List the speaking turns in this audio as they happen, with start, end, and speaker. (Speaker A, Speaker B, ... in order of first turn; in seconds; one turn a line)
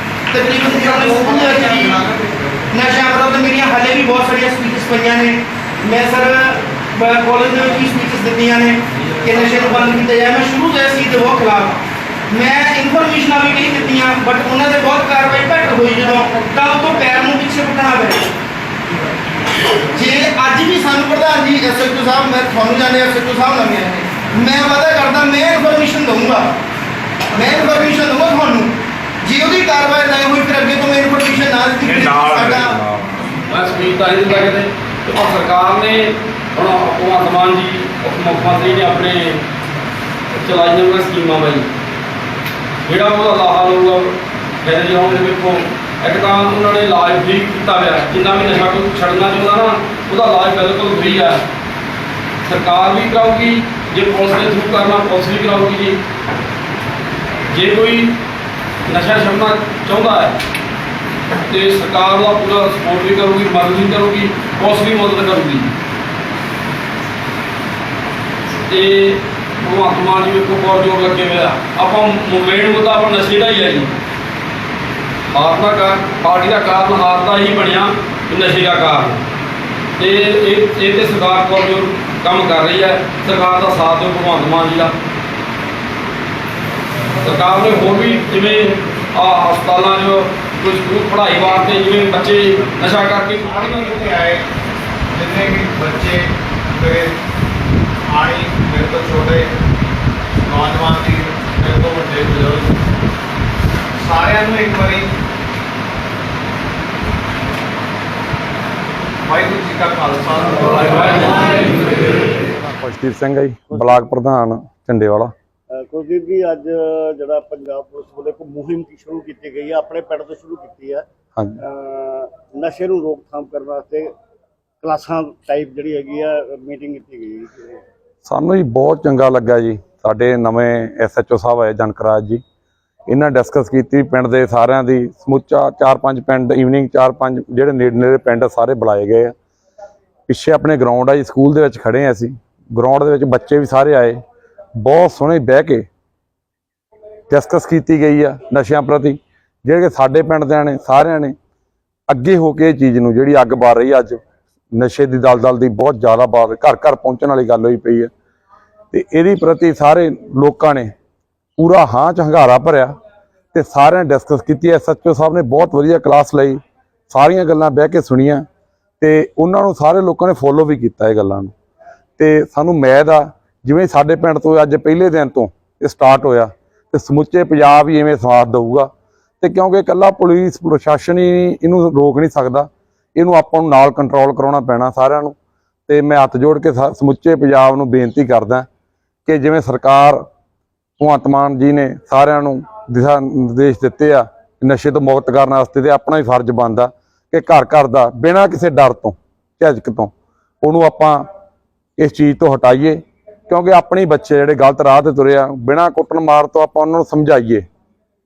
Speaker A: 0.3-2.0
Speaker B: 0.6-2.5
Speaker A: 2.7-18.3
Speaker A: 19.7-26.6
Speaker A: 27.3-32.8
Speaker C: 31.9-33.1
Speaker D: 33.5-39.4
Speaker D: 40.3-41.7
Speaker D: 42.9-51.4
Speaker D: 52.4-56.0
Speaker D: 57.5-58.2
Speaker D: 58.9-60.4
Speaker D: 61.5-65.7
Speaker D: 68.7-73.9
Speaker D: 75.3-79.2
Speaker D: 80.0-84.9
Speaker D: 87.2-93.9
Speaker B: 93.4-94.5
Speaker B: 95.1-97.2
Speaker B: 98.0-99.5
Speaker B: 100.4-102.8
Speaker B: 104.0-105.1
Speaker B: 109.2-112.2
Speaker C: 112.6-115.3
Speaker E: 113.7-114.0
Speaker E: 115.7-121.0
Speaker C: 121.3-121.6
Speaker E: 121.6-124.1
Speaker E: 124.8-127.8
Speaker C: 128.2-132.4
Speaker C: 133.1-139.3
Speaker C: 140.3-144.2
Speaker C: 144.8-145.8
Speaker C: 147.3-151.3
Speaker C: 152.1-154.2
Speaker C: 154.7-158.1
Speaker C: 158.9-160.9
Speaker C: 161.6-162.9
Speaker C: 163.5-168.5
Speaker C: 169.0-171.5
Speaker C: 172.2-185.3
Speaker C: 185.9-188.7
Speaker C: 189.2-190.2
Speaker C: 191.0-201.2
Speaker C: 202.0-207.7